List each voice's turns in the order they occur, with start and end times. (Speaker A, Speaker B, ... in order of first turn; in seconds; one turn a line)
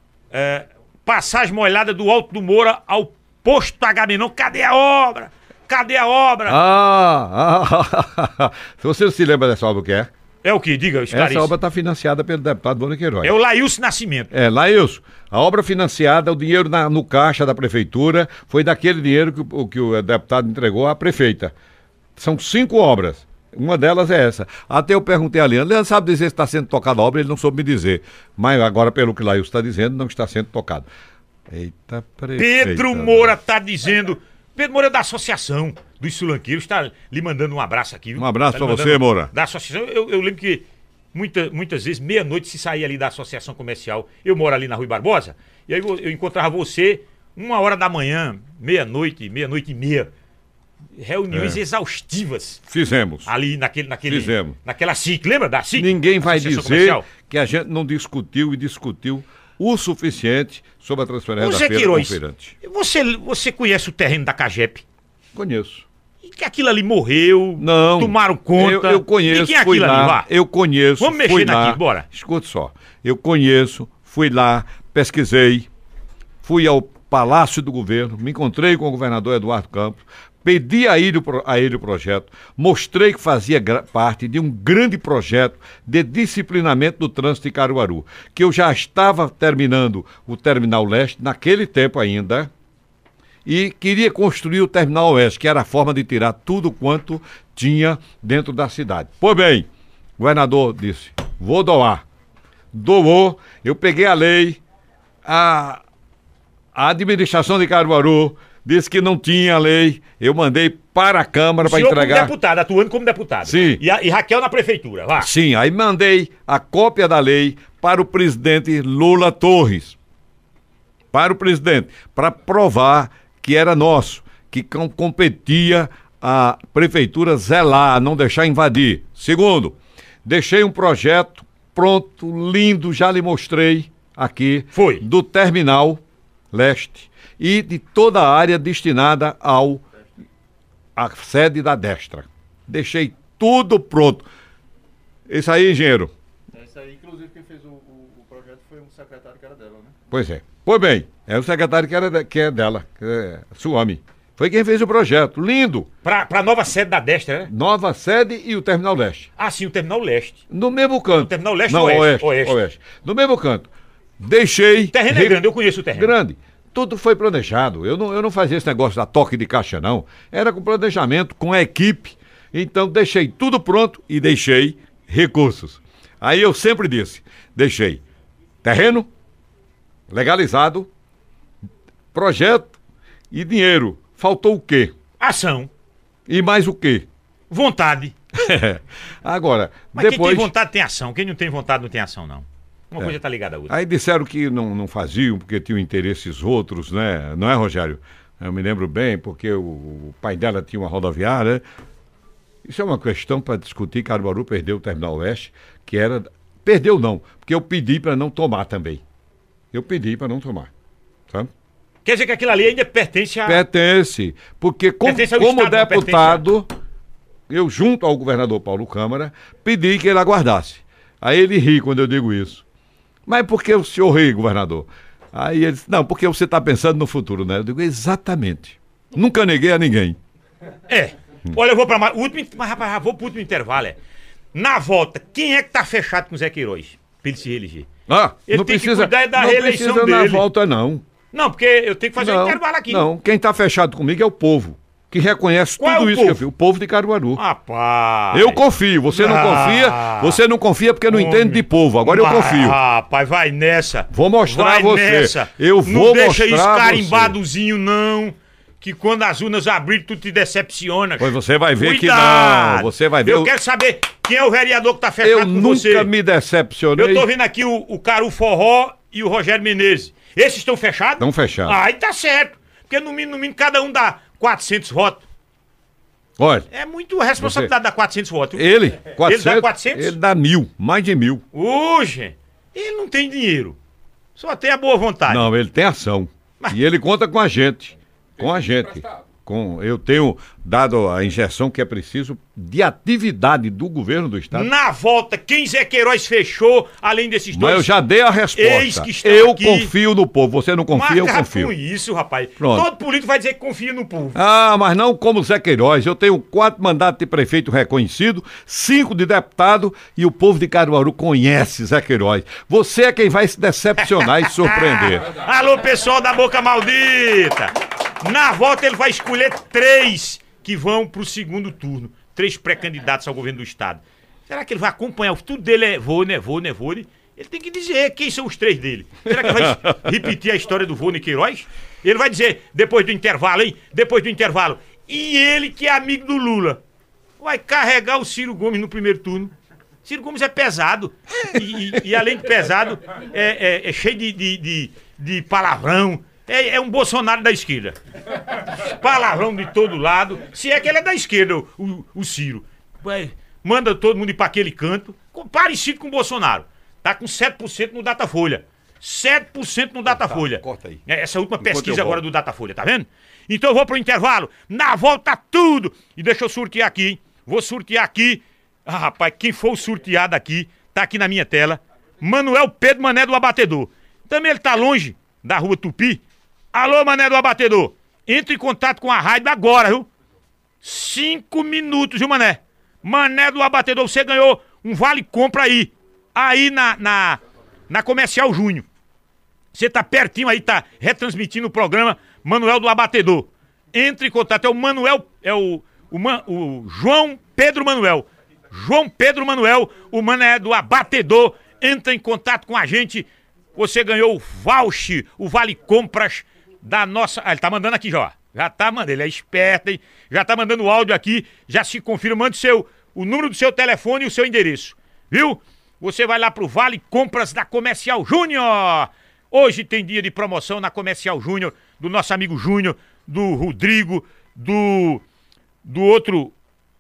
Speaker A: 0.3-6.6
Speaker B: 6.5-10.1
Speaker A: 10.4-11.5
Speaker B: 11.1-13.3
Speaker A: 13.2-14.3
Speaker B: 14.3-21.5
Speaker B: 22.2-30.9
Speaker B: 31.5-33.3
Speaker A: 32.4-50.1
Speaker B: 38.2-39.3
Speaker A: 51.0-52.6
Speaker B: 51.3-51.6
Speaker B: 52.7-53.3
Speaker A: 53.3-57.1
Speaker B: 54.1-54.6
Speaker B: 55.8-62.5
Speaker A: 61.4-64.8
Speaker B: 65.3-65.9
Speaker A: 66.2-70.3
Speaker B: 67.6-75.7
Speaker A: 71.0-72.0
Speaker B: 76.4-92.5
Speaker B: 93.5-99.7
Speaker B: 100.2-102.0
Speaker B: 102.7-104.6
Speaker B: 105.2-105.8
Speaker B: 106.8-112.3
Speaker A: 111.6-115.3
Speaker B: 113.5-113.8
Speaker B: 115.2-120.0
Speaker B: 121.1-139.8
Speaker A: 134.7-135.1
Speaker B: 141.0-144.3
Speaker B: 145.3-146.1
Speaker C: 146.5-150.0
Speaker B: 150.1-155.9
Speaker A: 156.0-157.5
Speaker B: 157.5-159.3
Speaker A: 159.4-160.4
Speaker B: 160.5-178.0
Speaker A: 161.2-162.6
Speaker A: 164.9-166.1
Speaker B: 178.6-179.1
Speaker B: 180.1-180.9
Speaker B: 182.1-182.7
Speaker B: 183.3-184.9
Speaker A: 185.2-185.7
Speaker B: 186.3-187.1
Speaker A: 187.5-188.2
Speaker B: 188.3-190.5
Speaker A: 189.9-193.7
Speaker B: 193.7-201.6
Speaker B: 202.7-209.0
Speaker B: 209.7-210.7
Speaker A: 212.1-213.6
Speaker B: 213.5-216.7
Speaker A: 215.0-216.5
Speaker B: 217.5-222.6
Speaker B: 223.3-230.2
Speaker A: 230.9-234.0
Speaker A: 234.5-237.9
Speaker B: 238.1-241.0
Speaker A: 238.5-240.4
Speaker A: 241.3-243.1
Speaker B: 242.2-247.4
Speaker A: 245.8-246.4
Speaker A: 247.4-250.4
Speaker B: 248.3-252.8
Speaker A: 251.1-266.1
Speaker B: 254.1-257.4
Speaker B: 261.2-263.5
Speaker B: 265.2-267.3
Speaker A: 267.0-275.2
Speaker B: 271.2-271.8
Speaker B: 276.4-276.7
Speaker A: 276.7-280.2
Speaker B: 277.4-277.7
Speaker B: 278.6-281.4
Speaker A: 281.5-283.8
Speaker A: 284.4-285.5
Speaker B: 285.3-294.7
Speaker A: 294.5-297.9
Speaker B: 297.5-301.7
Speaker A: 298.6-299.9
Speaker A: 300.9-304.4
Speaker B: 302.6-302.9
Speaker B: 304.4-315.3
Speaker A: 314.2-336.8
Speaker A: 337.4-339.5
Speaker A: 340.1-348.0
Speaker A: 348.6-380.1
Speaker B: 360.1-361.0
Speaker B: 361.6-362.2
Speaker A: 380.8-388.9
Speaker A: 389.7-425.2
Speaker A: 425.8-426.6